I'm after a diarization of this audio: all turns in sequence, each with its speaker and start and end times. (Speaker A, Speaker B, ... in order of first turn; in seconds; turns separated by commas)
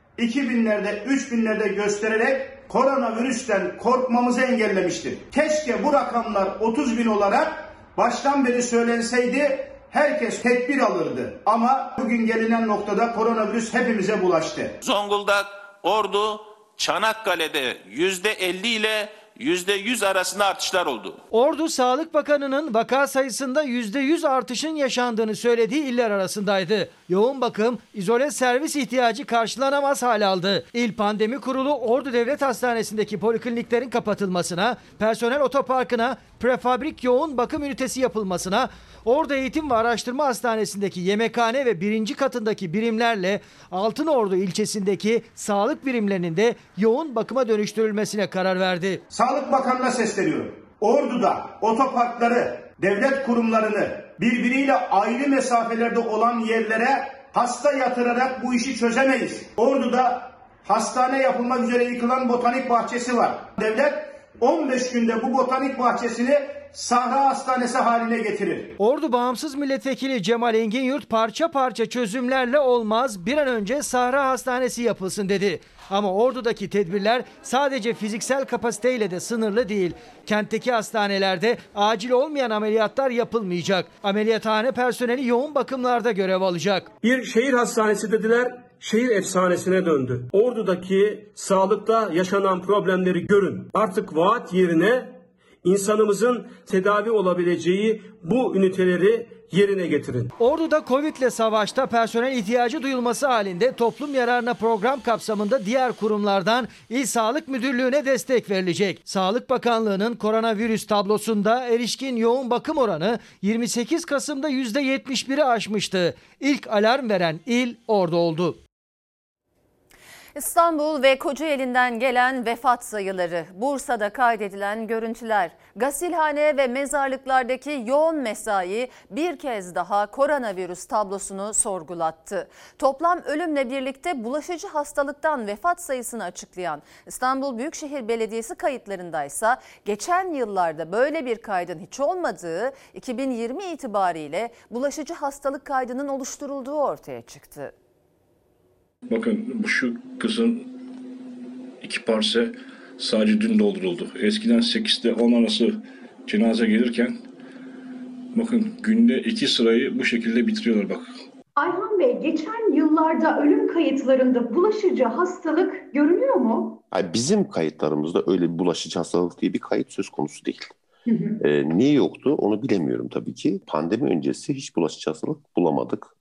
Speaker A: 0.2-14.8, Speaker B: 14.8-21.2, Speaker C: 21.3-49.0, Speaker A: 49.1-68.7, Speaker C: 68.8-86.9, Speaker D: 87.0-95.1, Speaker D: 95.7-100.3, Speaker C: 100.4-118.6, Speaker E: 120.4-147.7, Speaker F: 149.1-150.8, Speaker F: 151.8-157.2, Speaker F: 158.3-161.2, Speaker G: 161.6-166.8, Speaker H: 166.9-170.7, Speaker H: 171.4-176.1